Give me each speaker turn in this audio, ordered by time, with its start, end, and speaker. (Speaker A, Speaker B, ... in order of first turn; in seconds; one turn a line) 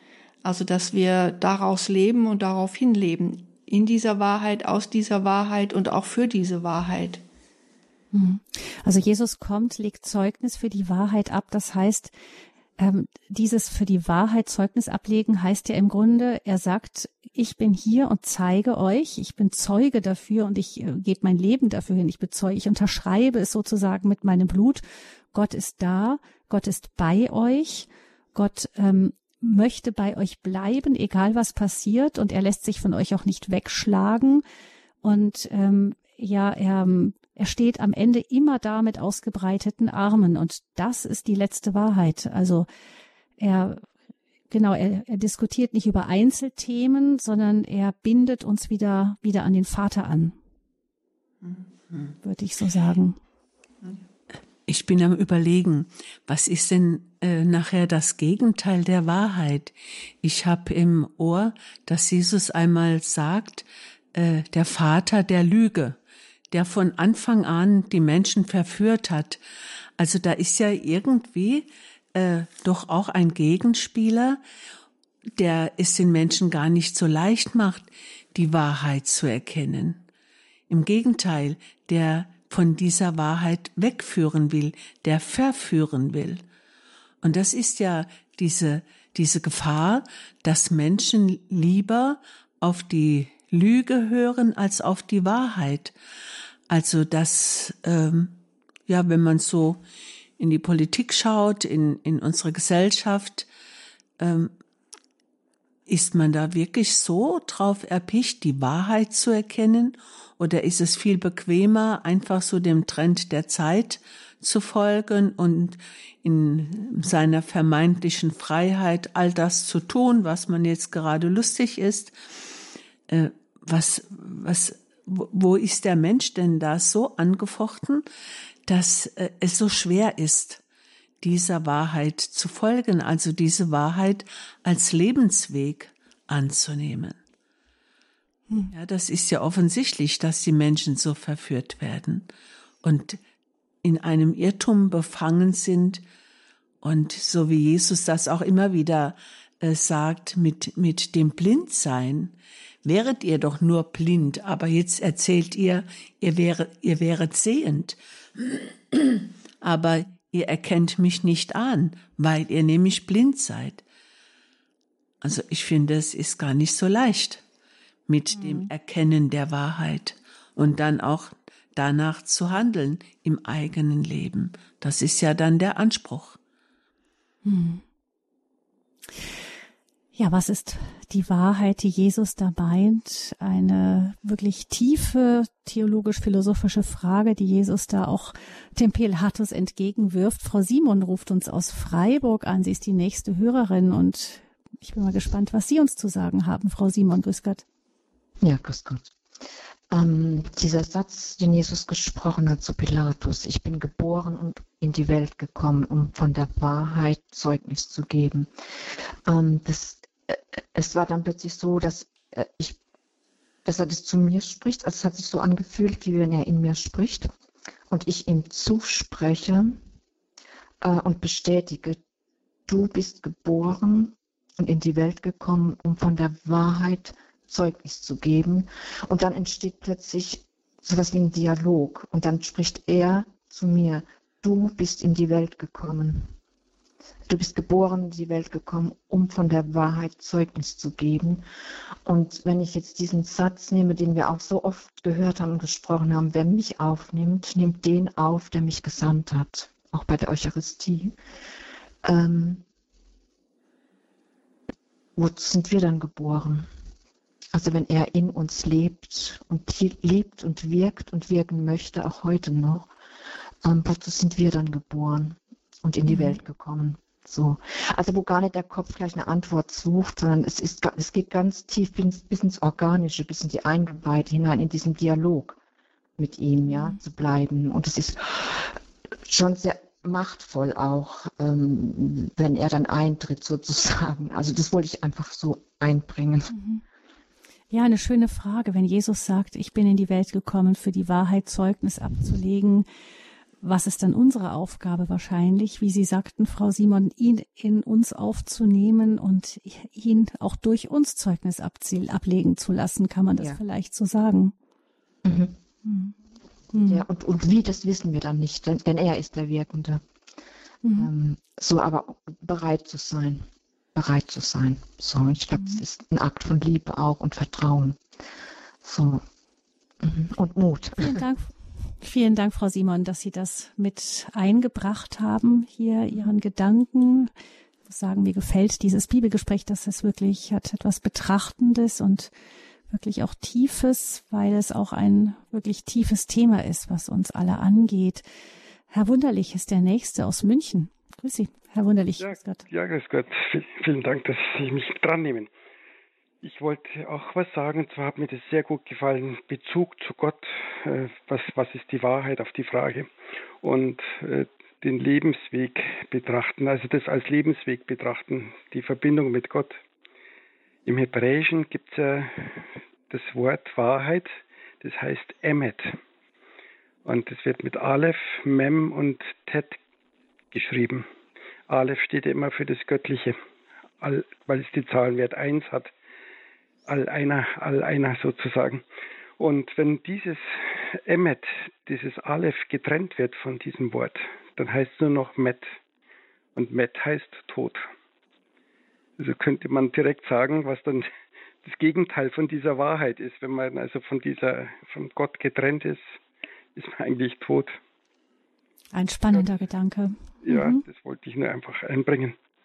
Speaker A: 0.4-7.2
Speaker B: 8.1-12.1
Speaker B: 12.8-34.4
Speaker B: 35.0-42.7
Speaker B: 43.4-43.9
Speaker B: 44.5-50.3
Speaker B: 52.2-53.2
Speaker C: 54.7-66.0
Speaker C: 66.5-69.4
Speaker C: 70.0-74.4
Speaker C: 75.4-80.0
Speaker C: 80.7-86.4
Speaker C: 87.2-95.9
Speaker C: 96.7-99.8
Speaker C: 100.4-103.5
Speaker C: 104.2-104.5
Speaker C: 105.9-128.0
Speaker C: 128.7-130.6
Speaker C: 131.2-137.2
Speaker C: 138.7-142.3
Speaker C: 142.8-143.2
Speaker C: 143.8-146.0
Speaker C: 146.8-163.8
Speaker C: 165.2-167.4
Speaker C: 168.1-176.4
Speaker B: 168.3-168.7
Speaker B: 177.4-177.8
Speaker B: 180.1-197.6
Speaker D: 198.4-199.1
Speaker D: 199.9-212.8
Speaker D: 213.6-217.3
Speaker D: 217.9-219.8
Speaker D: 220.8-222.0
Speaker D: 222.7-236.3
Speaker D: 237.3-241.4
Speaker D: 242.1-251.2
Speaker D: 252.0-252.6
Speaker D: 255.2-256.7
Speaker D: 257.5-262.9
Speaker D: 263.6-275.6
Speaker B: 266.1-266.4
Speaker D: 276.2-286.5
Speaker B: 276.7-277.0
Speaker B: 286.5-286.8
Speaker B: 287.7-292.9
Speaker B: 293.6-304.5
Speaker D: 305.2-305.6
Speaker B: 305.8-306.1
Speaker B: 306.7-307.0
Speaker D: 306.8-310.0
Speaker B: 310.8-311.1
Speaker D: 310.9-318.0
Speaker B: 315.5-315.8
Speaker D: 318.8-319.2
Speaker D: 320.0-321.2
Speaker B: 321.0-327.3
Speaker B: 327.9-332.3
Speaker B: 332.9-338.2
Speaker B: 338.9-342.6
Speaker E: 342.2-345.5
Speaker E: 346.4-353.1
Speaker E: 353.6-359.8
Speaker E: 360.9-366.0
Speaker E: 367.0-369.8
Speaker E: 370.5-371.1
Speaker E: 371.7-373.4
Speaker E: 374.0-375.9
Speaker E: 376.9-378.8
Speaker E: 379.4-380.5
Speaker E: 381.0-385.7
Speaker E: 386.5-387.8
Speaker E: 389.2-391.1
Speaker E: 391.6-396.1
Speaker E: 396.7-397.8
Speaker B: 398.9-400.8
Speaker E: 400.4-402.4